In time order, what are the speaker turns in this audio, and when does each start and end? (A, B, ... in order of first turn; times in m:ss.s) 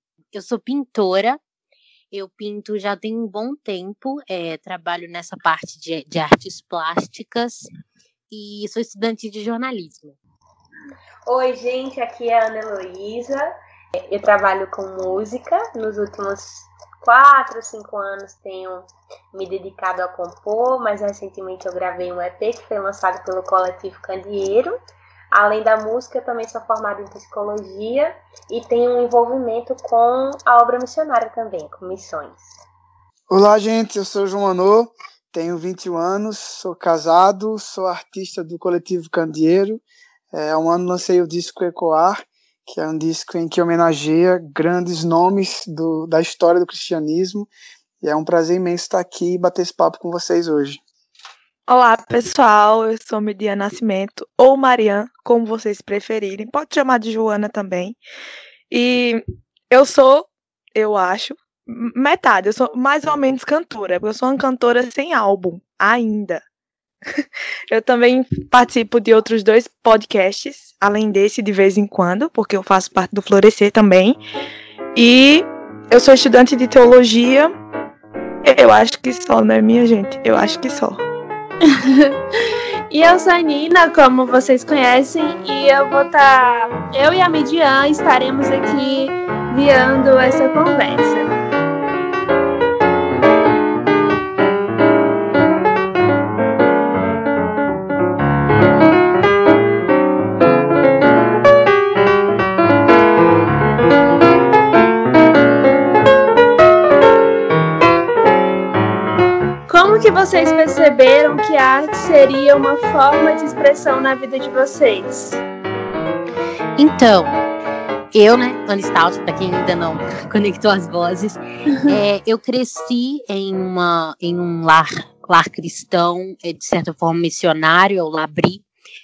0:00.3-0:01.4 A
0:02.1-0:07.7 A
0:08.3-0:10.2 A
0:11.3-0:24.8 B
0:25.3-0:32.5 B
0:33.3-0:47.5 C
0:48.0-0:50.8 C
0:51.7-0:58.0 D
0:58.7-1:06.4 D
1:07.1-1:14.2 D
1:14.9-1:17.5 D
1:18.4-1:21.0 D
1:21.6-1:22.2 E
1:22.9-1:31.3 E
1:49.7-1:55.4 E
1:56.8-1:57.4 A
1:58.1-2:08.6 A